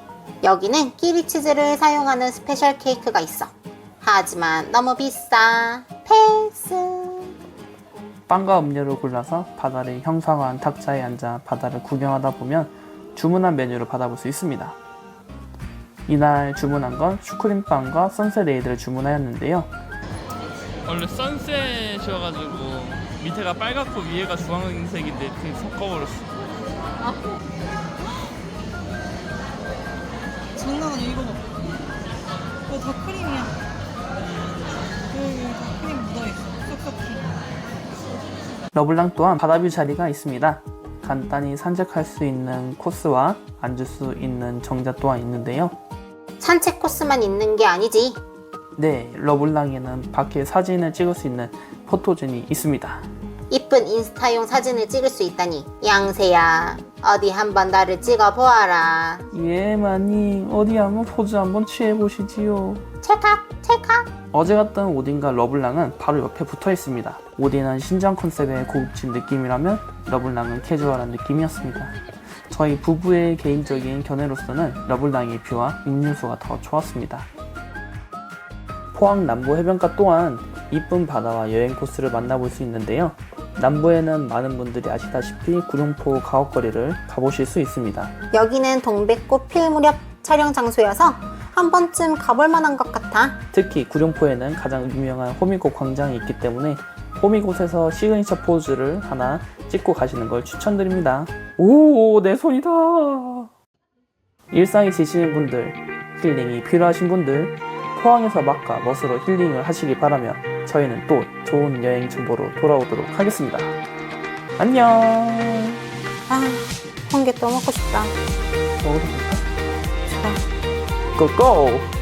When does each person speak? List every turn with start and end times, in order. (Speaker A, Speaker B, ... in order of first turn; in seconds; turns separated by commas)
Speaker A: 0.4-7.3, Speaker B: 8.3-14.8, Speaker B: 16.1-19.7, Speaker C: 20.9-26.4, Speaker B: 21.6-22.9, Speaker B: 23.9-24.4, Speaker D: 30.6-31.5, Speaker D: 32.7-33.6, Speaker D: 35.1-37.3, Speaker B: 38.7-45.7, Speaker A: 46.4-48.2, Speaker B: 48.8-53.0, Speaker A: 53.5-59.2, Speaker B: 59.3-62.8, Speaker A: 63.0-64.1, Speaker B: 64.3-71.9, Speaker B: 72.5-77.3, Speaker B: 78.9-88.1, Speaker A: 88.3-93.4, Speaker B: 93.5-103.5, Speaker B: 104.5-113.8, Speaker B: 114.6-115.8, Speaker A: 116.3-118.1, Speaker B: 118.8-119.4, Speaker A: 120.1-120.4, Speaker B: 121.2-121.9